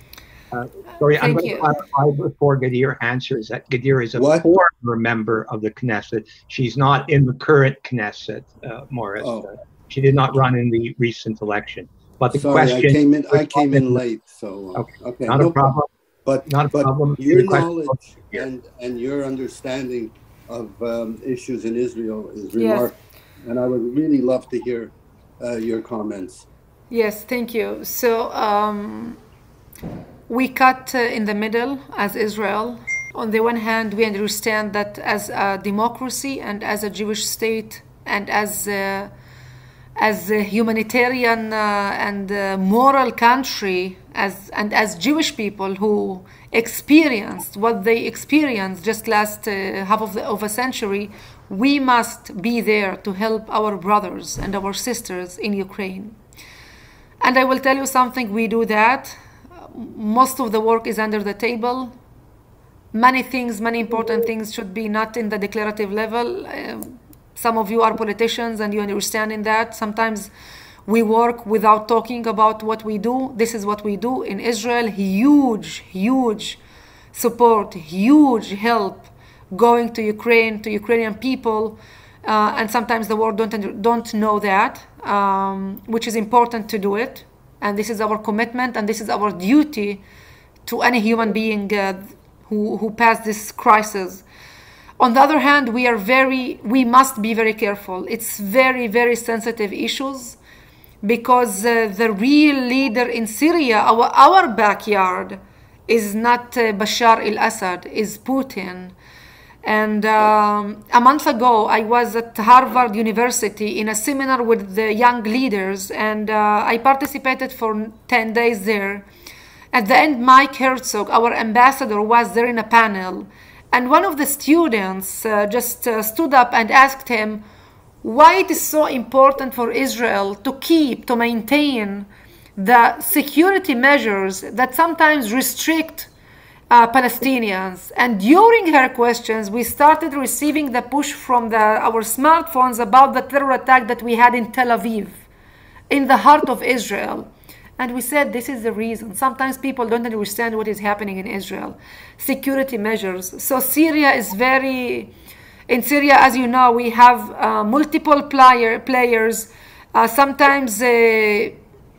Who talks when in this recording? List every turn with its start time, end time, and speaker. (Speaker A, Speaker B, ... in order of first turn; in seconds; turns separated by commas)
Speaker A: 0.5-14.0, Speaker B: 1.2-1.7, Speaker C: 4.2-4.5, Speaker C: 9.2-9.5, Speaker C: 12.3-15.7, Speaker A: 14.8-15.9, Speaker C: 16.3-26.5, Speaker A: 16.5-17.9, Speaker B: 22.6-22.9, Speaker B: 26.9-29.2, Speaker B: 30.3-39.1, Speaker B: 40.0-56.2, Speaker B: 57.2-62.0, Speaker B: 62.9-70.3, Speaker B: 70.9-76.6, Speaker B: 77.1-90.0, Speaker B: 90.7-94.2, Speaker B: 95.0-100.4, Speaker B: 101.0-108.9, Speaker B: 109.6-119.1, Speaker B: 119.7-127.4, Speaker B: 128.0-136.1, Speaker B: 136.7-145.2, Speaker B: 145.9-155.1, Speaker B: 155.7-161.6